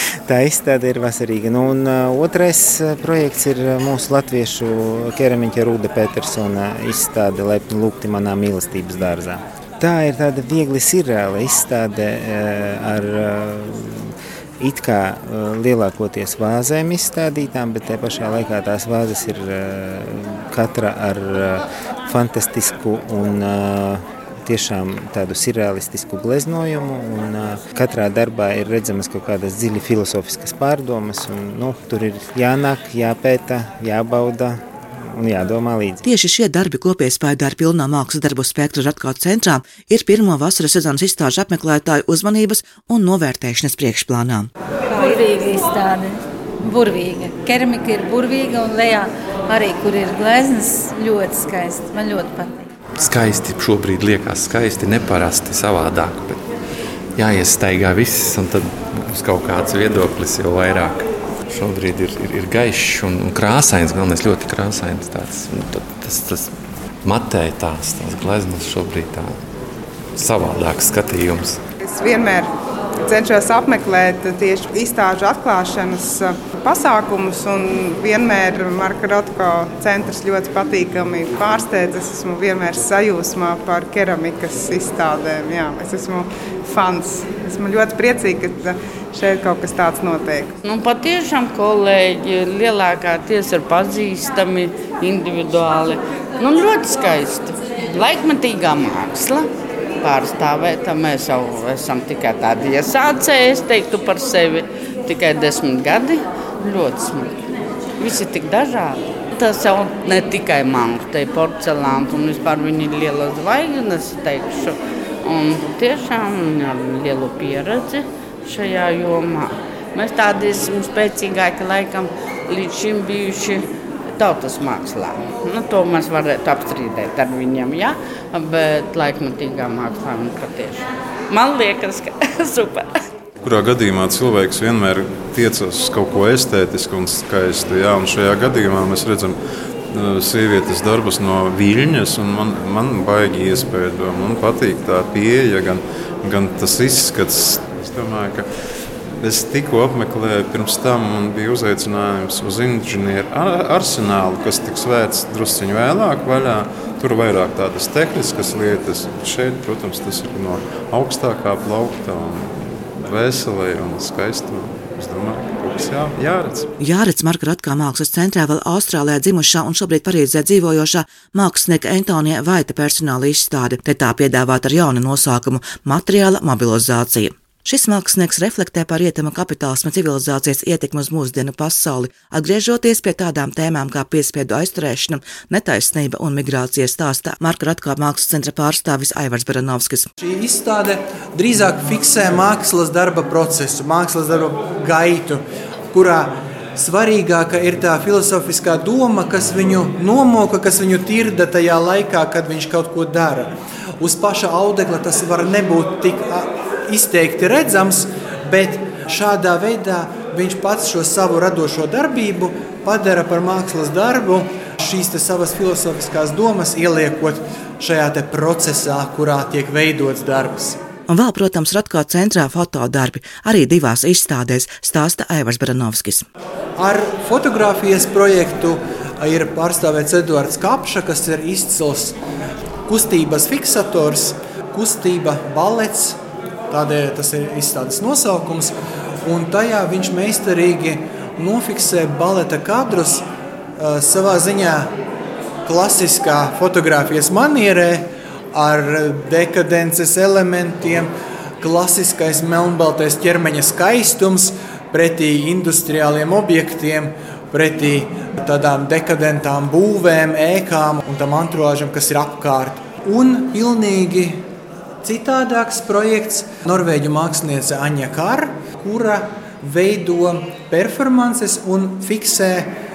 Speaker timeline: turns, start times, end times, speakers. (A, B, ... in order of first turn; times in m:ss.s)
0:00.3-0:34.6 A
0:35.1-0:36.0 A
0:36.0-0:44.5 B
0:45.1-0:52.5 C
0:53.0-0:56.4 D
0:57.2-1:06.5 D
1:07.0-1:09.4 D
1:10.1-1:11.6 D
1:11.8-1:30.5 E
1:30.6-1:39.5 F
1:40.0-1:47.4 F
1:48.0-2:03.6 F
2:04.2-2:12.9 F
2:13.4-2:19.4 G
2:19.9-2:28.4 G
2:29.2-2:46.7 G
2:46.8-3:10.1 B
3:10.2-3:40.8 H
3:41.1-3:46.3 B
3:46.8-3:52.2 H
3:52.9-3:56.2 H
3:56.7-4:03.2 H
4:03.8-4:04.9 H
4:05.6-4:24.4 H
4:25.0-4:32.7 H